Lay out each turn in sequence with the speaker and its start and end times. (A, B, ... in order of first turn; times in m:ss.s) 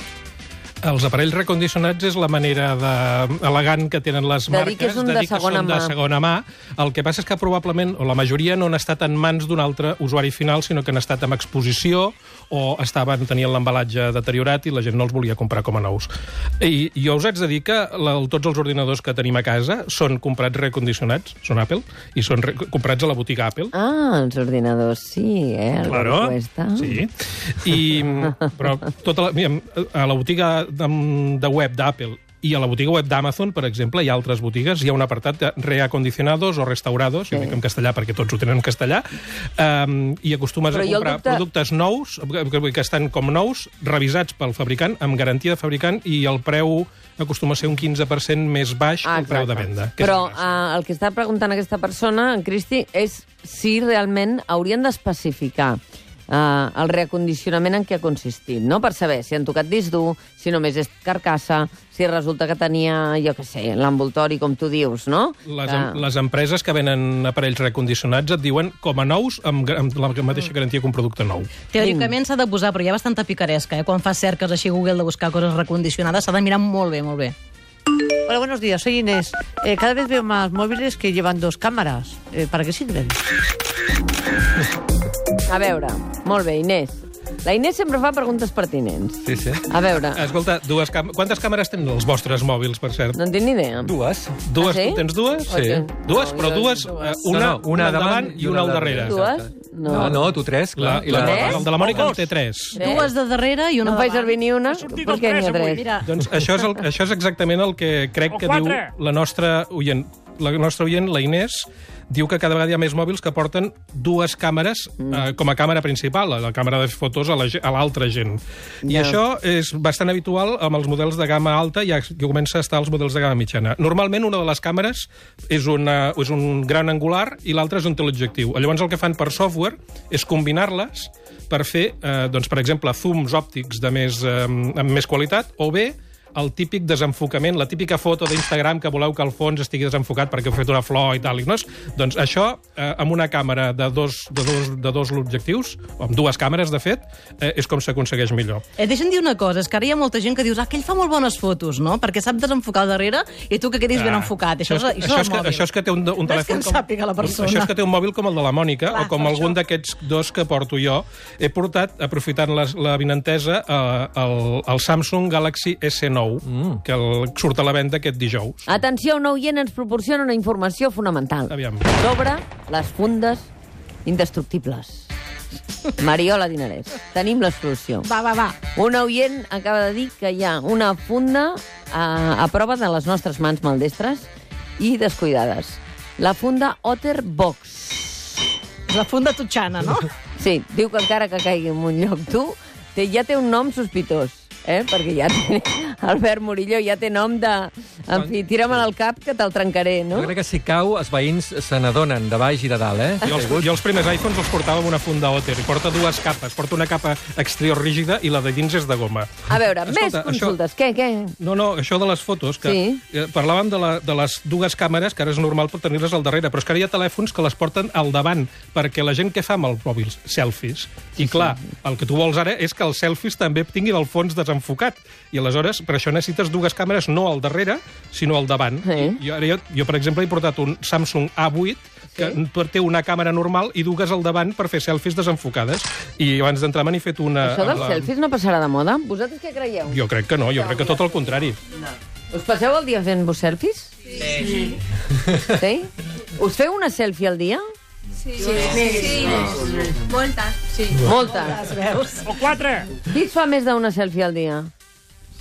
0:00.8-0:23.7 A
0:04.5-0:05.9 B
0:23.7-0:27.0 B
0:25.8-0:50.5 A
0:40.7-0:41.4 B
0:49.0-1:06.0 B
1:05.5-1:11.5 A
1:11.7-1:17.3 C
1:11.8-1:12.1 B
1:18.3-1:23.2 D
1:25.5-1:30.2 B
1:29.2-1:29.6 E
1:30.1-1:33.2 A
1:33.1-1:33.9 B
1:33.8-1:34.4 E
1:34.4-1:39.3 A
1:34.6-1:37.2 B
1:35.5-1:35.8 E
1:37.3-1:42.1 E
1:39.0-1:40.2 B
1:40.8-1:43.0 A
1:41.1-1:41.7 B
1:41.7-1:42.3 F
1:42.7-1:43.1 B
1:42.7-1:44.4 C
1:43.8-1:45.8 B
1:44.7-1:45.9 F
1:45.7-1:46.1 C
1:46.0-2:28.6 A
1:48.3-1:48.9 F
1:58.8-1:59.2 B
2:28.8-2:35.7 C
2:33.9-2:48.7 A
2:36.2-2:37.7 C
2:38.9-2:39.6 C
2:46.4-2:46.8 E
2:48.6-2:53.5 B
2:51.5-2:51.8 A
2:54.0-2:55.1 B
2:56.0-2:58.1 B
2:58.0-2:58.6 C
2:58.7-3:04.3 B
3:04.8-3:08.4 B
3:08.9-3:10.1 C
3:10.4-3:20.3 B
3:18.1-3:18.8 E
3:20.1-3:23.7 E
3:23.2-3:30.6 A
3:29.5-3:31.4 B
3:31.4-3:58.1 A
3:32.6-3:33.0 B
3:48.8-3:49.2 B
3:57.4-4:00.0 B
3:59.9-4:01.6 A
4:00.6-4:01.0 B
4:02.3-4:03.9 B
4:05.4-4:07.6 B
4:08.4-4:09.9 C
4:10.7-4:12.3 C
4:11.0-4:11.7 B
4:12.2-4:12.9 F
4:13.0-4:14.7 B